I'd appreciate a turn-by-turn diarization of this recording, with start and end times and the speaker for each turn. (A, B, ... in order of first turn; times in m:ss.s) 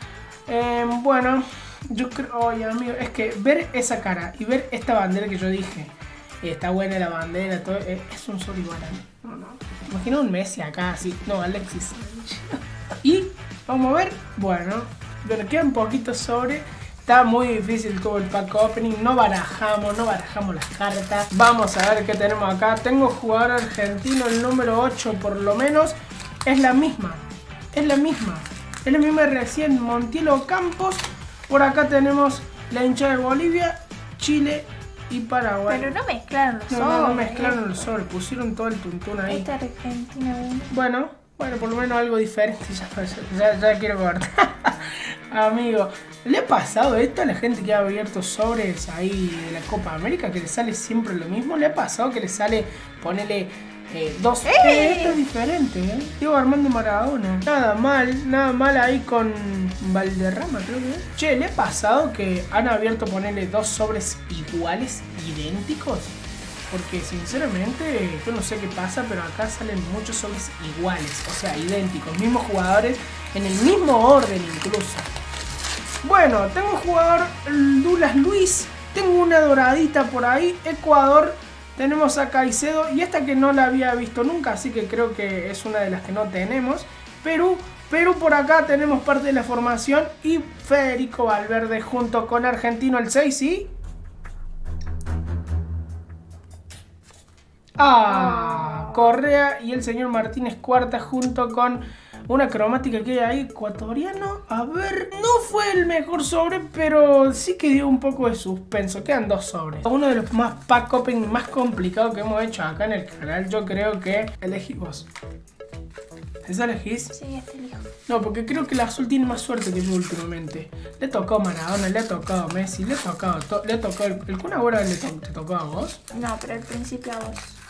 0:00.5-0:36.0 A
0:35.7-0:37.9 B
0:36.7-0:39.5 A
0:39.3-0:40.7 B
0:40.7-1:06.2 A
0:54.4-0:55.2 B
1:06.7-1:15.1 A
1:16.0-1:33.7 A
1:37.8-1:55.1 A
1:38.1-1:39.1 B
1:56.4-1:57.1 A
1:57.1-1:57.9 B
1:58.1-2:06.0 A
2:06.1-2:07.6 B